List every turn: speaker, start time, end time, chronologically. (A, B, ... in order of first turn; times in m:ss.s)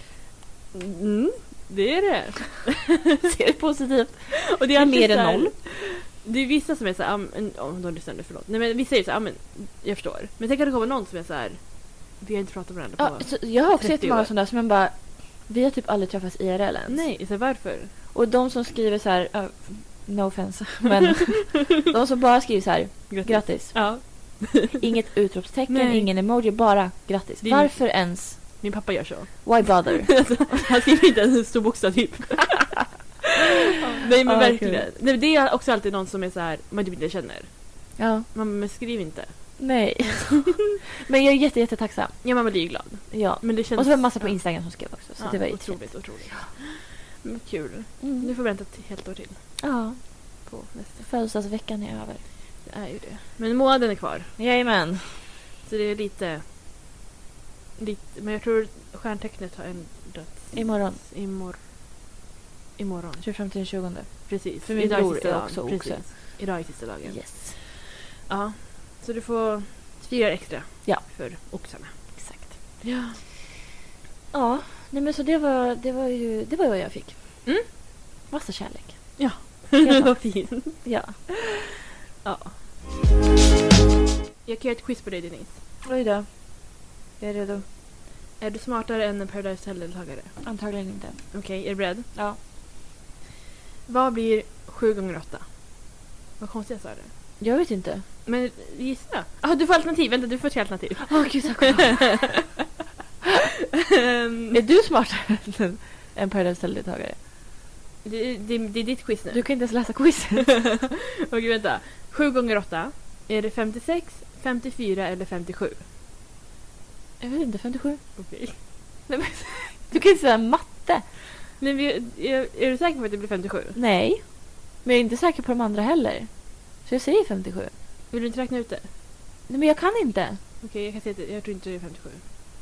0:00.7-0:03.3 A
0:03.2-0:05.5 B
0:04.5-0:14.3 A
0:13.0-0:17.1 B
0:16.9-0:17.9 A
0:18.1-0:28.6 B
0:23.1-0:24.8 A
0:25.7-0:26.1 A
0:27.4-0:32.8 A
0:29.4-0:30.4 B
0:33.7-0:40.2 A
0:34.2-0:34.8 B
0:38.0-0:38.3 B
0:39.6-0:42.4 B
0:42.2-0:49.6 A
0:43.0-0:46.5 B
0:48.0-0:48.3 B
0:49.6-0:50.0 B
0:50.4-0:51.1 A
0:51.0-0:52.3 B
0:52.6-0:54.4 A
0:54.4-0:55.4 B
0:55.6-0:56.4 A
0:57.8-1:01.6 A
1:00.5-1:01.0 B
1:02.8-1:03.2 A
1:03.2-1:06.4 B
1:04.3-1:13.2 A
1:07.0-1:07.6 B
1:12.1-1:12.8 B
1:14.3-1:17.4 B
1:18.3-1:21.4 B
1:19.2-1:20.8 A
1:22.2-1:22.6 A
1:24.4-1:25.6 A
1:25.8-1:27.6 B
1:28.4-1:30.5 A
1:30.4-1:31.4 B
1:31.3-1:32.1 A
1:32.1-1:32.4 B
1:33.9-1:37.1 A
1:37.4-1:38.0 B
1:38.2-1:42.3 A
1:41.0-1:42.4 B
1:44.0-1:44.6 A
1:44.5-1:47.2 B
1:48.0-1:49.6 A
1:49.3-1:50.6 B
1:50.4-1:55.8 A
1:57.2-1:58.2 B
1:58.2-1:58.6 A
1:59.1-2:01.0 B
2:01.6-2:03.8 A
2:03.7-2:07.7 B
2:08.1-2:08.9 A
2:09.5-2:10.4 B
2:10.6-2:12.2 A